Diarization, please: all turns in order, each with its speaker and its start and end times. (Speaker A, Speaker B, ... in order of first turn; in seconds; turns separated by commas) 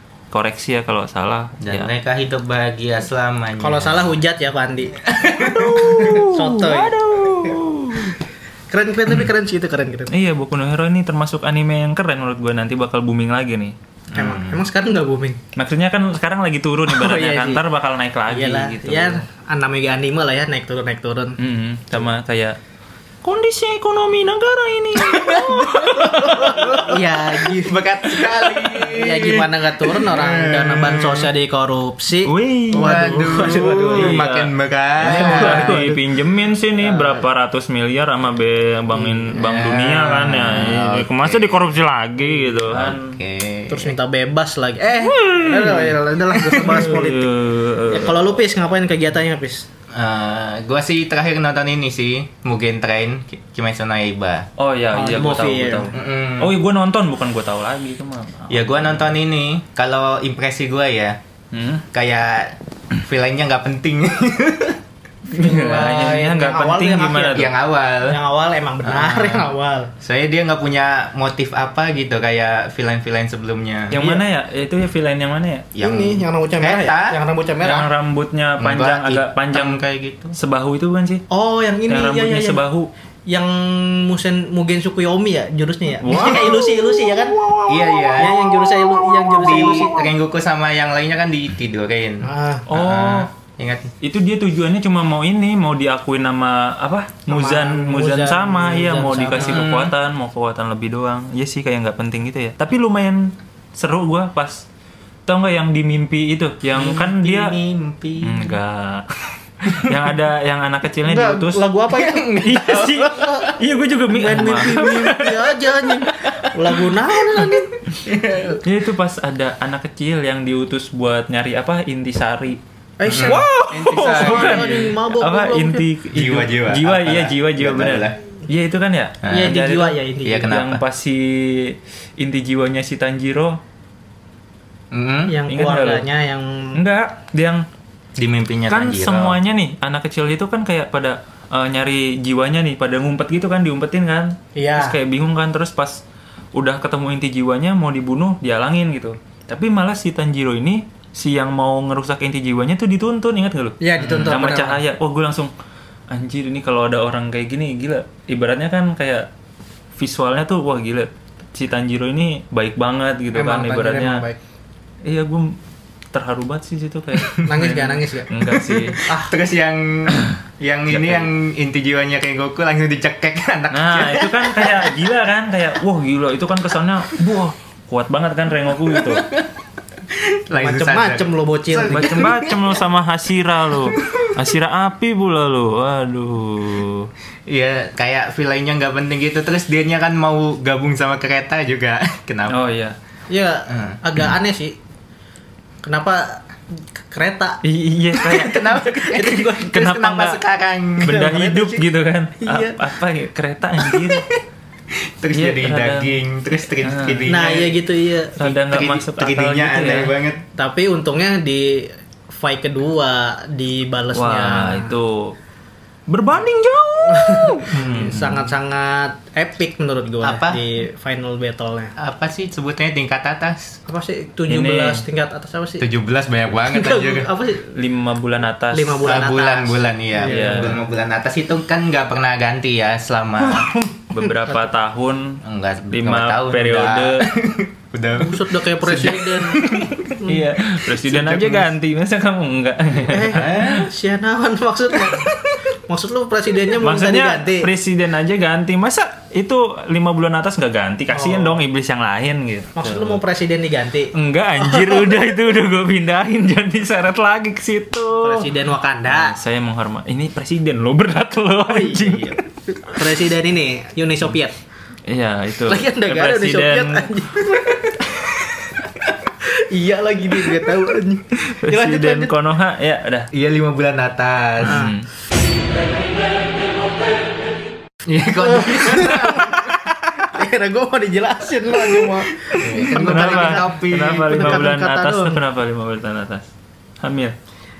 Speaker A: 0.3-1.9, Speaker B: 1.6-4.1, Speaker C: 3.6-5.0, Speaker B: 5.0-6.2, Speaker A: 5.3-8.2, Speaker C: 5.9-6.9, Speaker C: 8.7-10.1, Speaker A: 10.1-13.7, Speaker B: 14.1-14.6, Speaker C: 14.1-15.4, Speaker A: 15.6-19.2, Speaker C: 16.9-17.6, Speaker C: 18.3-21.4, Speaker A: 21.4-22.6, Speaker A: 23.2-26.9, Speaker B: 24.9-31.3, Speaker C: 25.8-34.2, Speaker A: 32.2-34.5, Speaker B: 32.7-35.9, Speaker A: 35.0-43.1, Speaker C: 35.0-36.0, Speaker C: 36.8-37.2, Speaker B: 39.0-41.7, Speaker B: 42.6-43.9, Speaker C: 43.7-47.3, Speaker A: 45.0-48.3, Speaker C: 47.9-49.6, Speaker B: 49.9-54.5, Speaker A: 54.6-59.1, Speaker C: 54.9-55.9, Speaker B: 55.9-56.5, Speaker B: 58.5-61.2, Speaker A: 61.5-61.8, Speaker B: 61.9-64.8, Speaker A: 65.3-67.5, Speaker C: 65.3-67.5, Speaker B: 67.3-68.2, Speaker C: 68.0-69.9, Speaker B: 68.8-69.5, Speaker B: 70.0-74.1, Speaker A: 73.9-75.7, Speaker B: 75.7-77.2, Speaker C: 75.8-77.9, Speaker A: 77.6-79.8, Speaker B: 78.6-80.3, Speaker A: 80.3-81.2, Speaker C: 81.3-82.6, Speaker A: 81.9-82.9, Speaker C: 83.3-90.0, Speaker A: 86.0-87.7, Speaker B: 87.7-88.5, Speaker B: 89.2-93.9, Speaker C: 92.2-92.7, Speaker A: 92.7-93.3, Speaker A: 94.0-104.6, Speaker C: 97.3-99.6, Speaker B: 99.4-99.9, Speaker A: 105.2-107.5, Speaker B: 106.7-108.6, Speaker A: 108.2-111.6, Speaker B: 109.7-110.0, Speaker C: 111.0-113.5, Speaker B: 111.9-113.5, Speaker A: 112.4-116.1, Speaker C: 114.1-117.7, Speaker B: 117.3-118.6, Speaker A: 118.6-122.6, Speaker C: 123.0-123.5, Speaker B: 123.0-124.9, Speaker A: 123.2-133.6, Speaker C: 124.0-125.8, Speaker B: 126.1-128.2, Speaker B: 129.2-129.5, Speaker C: 129.3-130.5, Speaker B: 130.2-130.8, Speaker B: 134.9-135.4, Speaker C: 135.3-136.8, Speaker A: 135.5-136.1, Speaker A: 136.8-137.6, Speaker B: 138.2-139.4, Speaker A: 138.7-146.0, Speaker C: 144.5-144.9, Speaker A: 146.5-155.5, Speaker C: 153.8-154.8, Speaker B: 154.0-154.3, Speaker A: 156.1-159.3, Speaker A: 160.0-164.2, Speaker C: 163.3-164.4, Speaker A: 165.0-165.6, Speaker A: 166.1-169.0, Speaker C: 167.4-168.3, Speaker B: 168.4-174.9, Speaker C: 169.0-169.3, Speaker A: 170.9-171.3, Speaker A: 173.7-179.3, Speaker B: 178.9-179.5, Speaker B: 180.1-182.7, Speaker C: 180.5-182.3, Speaker A: 181.8-187.1, Speaker B: 183.9-184.3, Speaker B: 187.5-192.6, Speaker A: 192.5-192.9, Speaker C: 193.3-194.8, Speaker B: 193.7-194.0, Speaker C: 195.8-197.6, Speaker A: 197.6-198.8, Speaker B: 198.2-201.3, Speaker C: 198.3-200.0, Speaker A: 199.6-200.4, Speaker A: 201.0-204.3, Speaker C: 201.1-201.8, Speaker C: 202.4-202.8, Speaker B: 203.8-204.4, Speaker B: 204.9-207.8, Speaker A: 205.3-206.2, Speaker A: 206.8-207.3, Speaker C: 207.3-208.4, Speaker A: 208.4-210.1, Speaker B: 208.4-210.4, Speaker C: 210.6-214.9, Speaker A: 214.1-215.3, Speaker A: 216.1-218.3, Speaker C: 217.1-221.9, Speaker B: 217.7-218.4, Speaker B: 220.2-220.6, Speaker B: 221.9-223.8, Speaker C: 223.9-225.9, Speaker A: 224.5-225.0, Speaker B: 225.8-227.3, Speaker C: 226.7-227.7, Speaker A: 227.7-229.1, Speaker C: 228.7-230.8, Speaker B: 229.0-233.7, Speaker A: 230.2-230.8, Speaker A: 233.5-235.4, Speaker C: 234.2-234.6, Speaker B: 235.4-240.0, Speaker A: 235.9-237.2, Speaker C: 238.2-240.5, Speaker A: 239.6-243.8, Speaker B: 240.9-241.7, Speaker C: 243.1-245.3, Speaker B: 243.3-243.8, Speaker B: 245.1-245.6, Speaker C: 245.9-247.7, Speaker A: 246.8-253.2, Speaker C: 251.1-251.6, Speaker C: 252.8-255.2, Speaker A: 254.1-258.5, Speaker C: 258.2-259.4, Speaker A: 259.1-262.4, Speaker C: 261.6-264.5, Speaker A: 265.1-267.1, Speaker C: 265.7-267.9, Speaker C: 269.4-272.3, Speaker A: 271.4-273.3, Speaker B: 273.3-274.9, Speaker A: 274.6-275.1, Speaker C: 274.7-274.9, Speaker B: 278.0-279.7, Speaker C: 278.4-285.4, Speaker B: 282.6-284.6, Speaker A: 282.9-286.4, Speaker A: 287.0-287.4